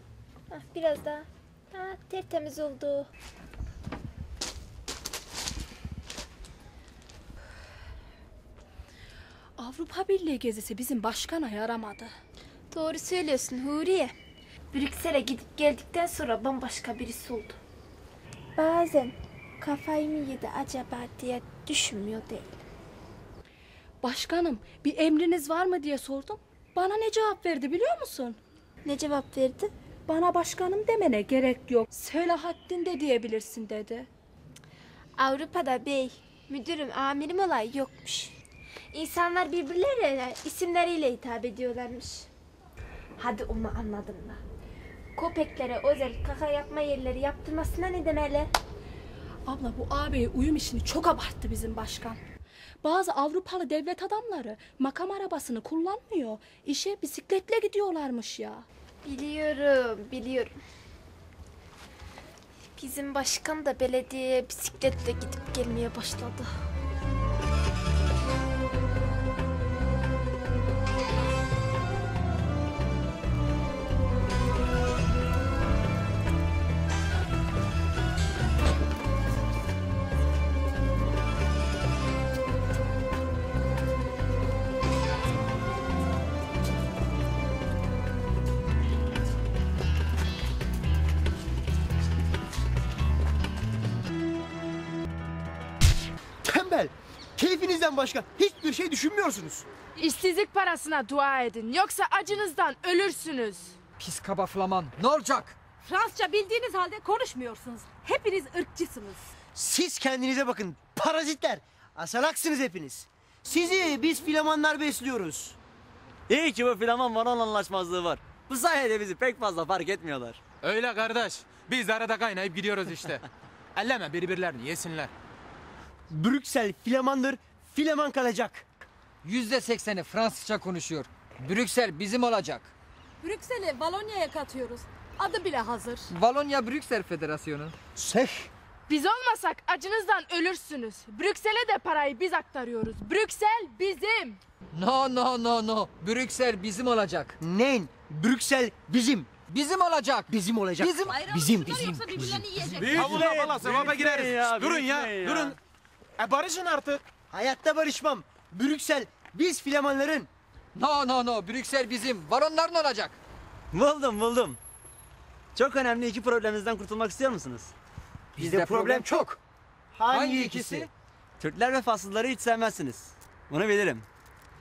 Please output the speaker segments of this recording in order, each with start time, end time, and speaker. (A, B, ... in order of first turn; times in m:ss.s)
0:00.5-0:03.1 A
0:09.6-0:12.1 B
0:12.7-0:14.2 A
0:14.7-0:17.6 A
0:18.6-0:22.6 A
0:24.0-0:28.4 B
0:28.8-0:29.7 A
0:30.1-0:34.1 B
0:35.2-0:38.3 A
0:38.9-0:42.3 A
0:43.2-0:44.4 A
0:45.1-0:48.5 A
0:49.4-0:52.2 B
0:52.8-0:58.6 B
0:59.0-1:00.6 A
1:02.8-1:06.5 A
1:36.4-1:39.6 C
1:40.0-1:43.8 D
1:44.0-1:45.6 E
1:45.8-1:49.3 F
1:49.5-1:55.5 C
1:56.3-2:00.4 G
2:00.6-2:03.2 H
2:03.7-2:05.1 H
2:06.1-2:08.6 C
2:09.2-2:12.7 E
2:13.2-2:16.0 F
2:16.1-2:17.8 E
2:18.0-2:18.5 C
2:18.9-2:24.4 D
2:24.7-2:27.4 E
2:27.4-2:29.3 C
2:29.5-2:31.2 E
2:30.3-2:33.8 C
2:31.2-2:32.9 F
2:32.6-2:32.8 E
2:32.8-2:35.6 H
2:33.0-2:35.6 G
2:36.2-2:37.0 H
2:37.3-2:40.3 C
2:40.7-2:43.2 E
2:43.7-2:44.6 G
2:45.5-2:47.7 G
2:48.4-2:49.4 E
2:48.4-2:49.2 C
2:48.4-2:49.0 G
2:49.9-2:50.8 C
2:50.1-2:50.9 E
2:51.4-2:54.0 G